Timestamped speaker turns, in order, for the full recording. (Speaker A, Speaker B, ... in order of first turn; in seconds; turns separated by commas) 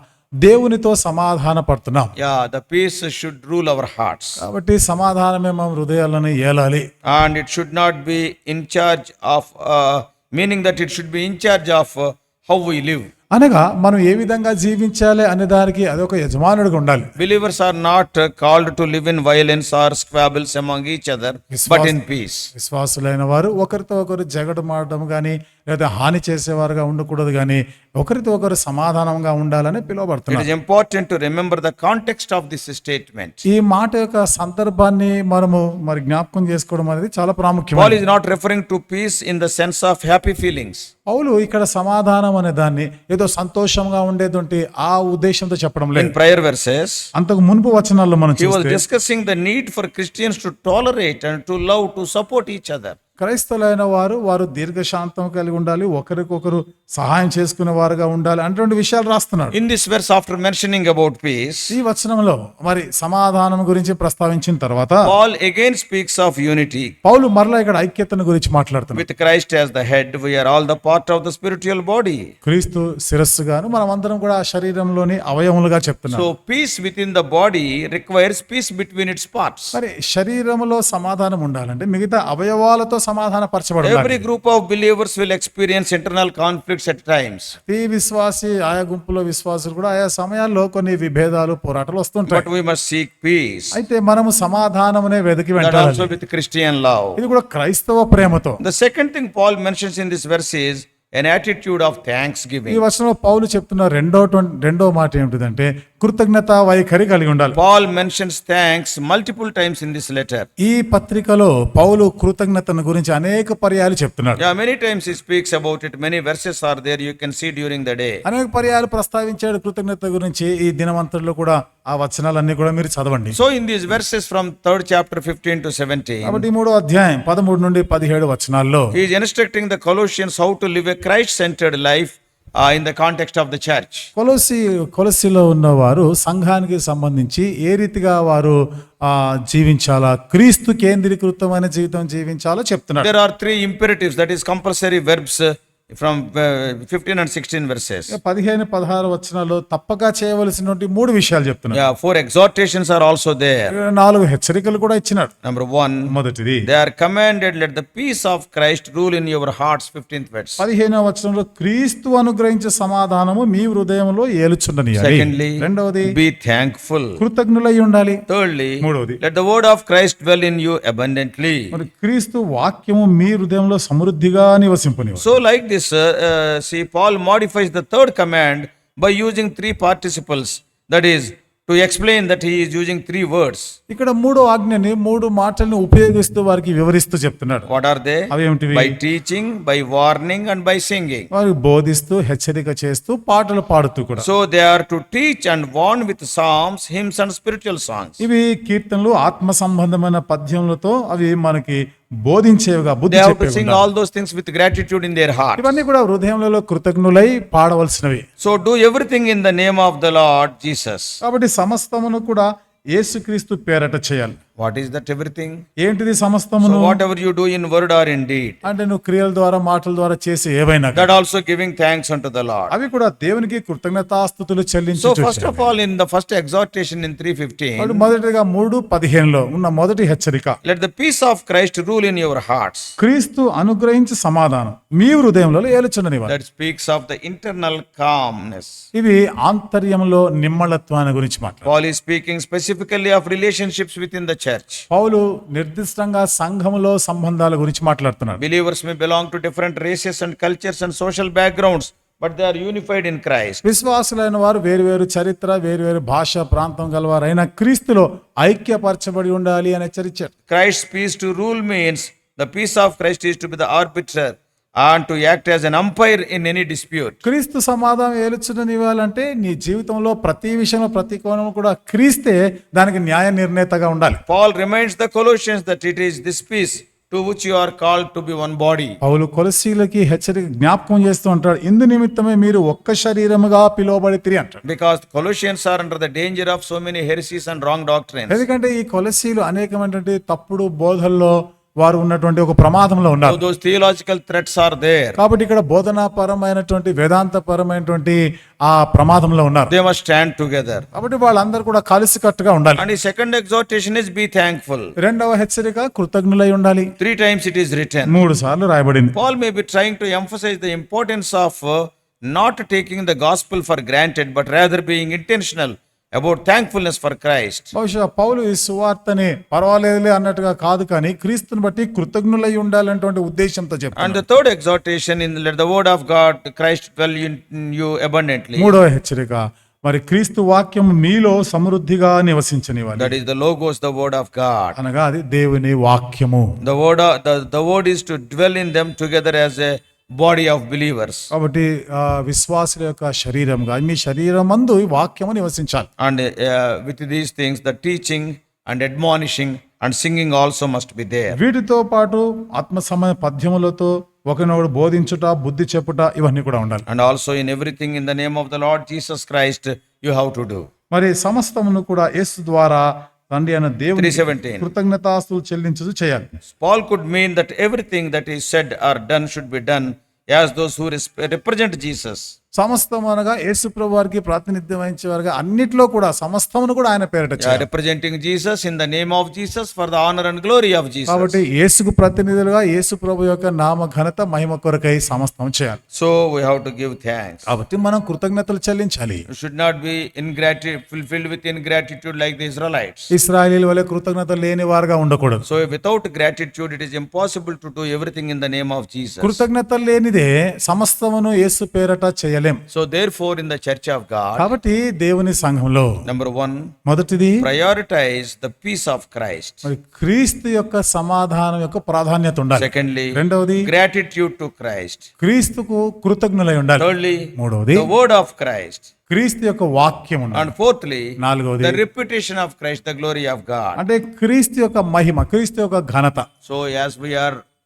Speaker A: 0.4-2.1, Speaker B: 2.2-4.4, Speaker A: 4.4-6.8, Speaker B: 7.0-13.1, Speaker A: 13.3-17.1, Speaker B: 17.2-22.5, Speaker A: 21.5-22.0, Speaker A: 22.5-30.5, Speaker B: 30.3-33.4, Speaker A: 33.5-38.0, Speaker B: 37.7-40.9, Speaker A: 41.1-46.1, Speaker B: 45.9-47.1, Speaker A: 47.1-48.8, Speaker B: 48.4-53.0, Speaker A: 53.2-59.5, Speaker B: 59.5-61.8, Speaker A: 61.7-65.1, Speaker B: 65.0-66.9, Speaker A: 67.0-69.0, Speaker B: 68.9-72.3, Speaker A: 72.4-76.2, Speaker B: 76.1-79.8, Speaker A: 79.7-84.2, Speaker B: 83.8-87.5, Speaker A: 87.7-92.5, Speaker B: 92.3-93.8, Speaker A: 93.7-96.1, Speaker B: 95.6-97.2, Speaker A: 97.2-98.6, Speaker B: 98.6-102.8, Speaker A: 102.7-107.6, Speaker B: 107.5-110.5, Speaker A: 110.6-114.4, Speaker B: 114.4-118.2, Speaker A: 118.2-123.4, Speaker B: 123.3-126.5, Speaker A: 126.2-128.9, Speaker B: 128.9-134.1, Speaker A: 134.2-143.1, Speaker B: 143.0-148.1, Speaker A: 148.1-151.8, Speaker B: 151.7-153.7, Speaker A: 153.7-155.3, Speaker B: 155.4-156.1, Speaker A: 156.1-156.7, Speaker B: 156.7-160.6, Speaker A: 160.6-166.1, Speaker B: 165.0-167.2, Speaker A: 167.2-168.2, Speaker B: 168.3-171.8, Speaker A: 168.8-169.2, Speaker A: 171.7-175.3, Speaker B: 175.2-183.7, Speaker A: 183.9-187.7, Speaker B: 187.7-191.3, Speaker A: 188.3-189.0, Speaker A: 191.3-194.2, Speaker B: 194.2-198.2, Speaker A: 198.2-203.8, Speaker B: 203.1-205.8, Speaker A: 205.6-208.2, Speaker B: 208.4-211.2, Speaker A: 211.2-214.4, Speaker B: 214.6-215.6, Speaker A: 215.8-217.0, Speaker B: 216.6-218.6, Speaker A: 218.6-221.1, Speaker B: 220.9-222.7, Speaker A: 222.7-225.7, Speaker B: 225.0-228.1, Speaker A: 227.8-230.6, Speaker B: 230.6-232.9, Speaker A: 233.0-236.3, Speaker B: 236.3-238.8, Speaker A: 238.9-241.7, Speaker B: 241.6-244.8, Speaker A: 244.9-248.4, Speaker B: 248.4-253.6, Speaker A: 253.6-260.3, Speaker B: 260.5-267.2, Speaker A: 267.2-274.2, Speaker B: 274.3-279.0, Speaker A: 279.0-284.6, Speaker B: 284.6-288.4, Speaker A: 288.3-293.4, Speaker B: 293.2-295.2, Speaker A: 295.2-299.7, Speaker B: 299.7-300.9, Speaker A: 300.9-302.8, Speaker B: 302.8-304.9, Speaker A: 305.0-306.9, Speaker B: 307.0-308.2, Speaker A: 308.1-309.1, Speaker B: 309.1-317.7, Speaker A: 317.7-324.2, Speaker B: 323.9-328.7, Speaker A: 328.6-333.1, Speaker B: 333.0-334.8, Speaker A: 334.8-336.6, Speaker B: 336.6-341.3, Speaker A: 341.3-345.9, Speaker B: 346.0-351.4, Speaker A: 351.3-356.8, Speaker B: 356.9-360.6, Speaker A: 360.9-366.3, Speaker B: 363.9-364.7, Speaker B: 366.5-372.3, Speaker A: 372.6-377.6, Speaker B: 377.4-381.4, Speaker A: 381.1-385.8, Speaker B: 385.9-387.5, Speaker A: 387.5-389.2, Speaker B: 389.3-393.1, Speaker A: 393.1-395.4, Speaker B: 395.4-399.4, Speaker A: 399.2-402.6, Speaker B: 402.7-404.5, Speaker A: 404.4-405.9, Speaker B: 406.0-406.7, Speaker A: 406.9-407.4, Speaker B: 407.4-409.7, Speaker A: 409.6-413.7, Speaker B: 412.6-415.1, Speaker A: 415.2-417.9, Speaker B: 416.8-418.9, Speaker A: 419.1-420.5, Speaker B: 420.3-423.8, Speaker A: 421.2-421.8, Speaker A: 423.8-426.2, Speaker B: 426.4-427.4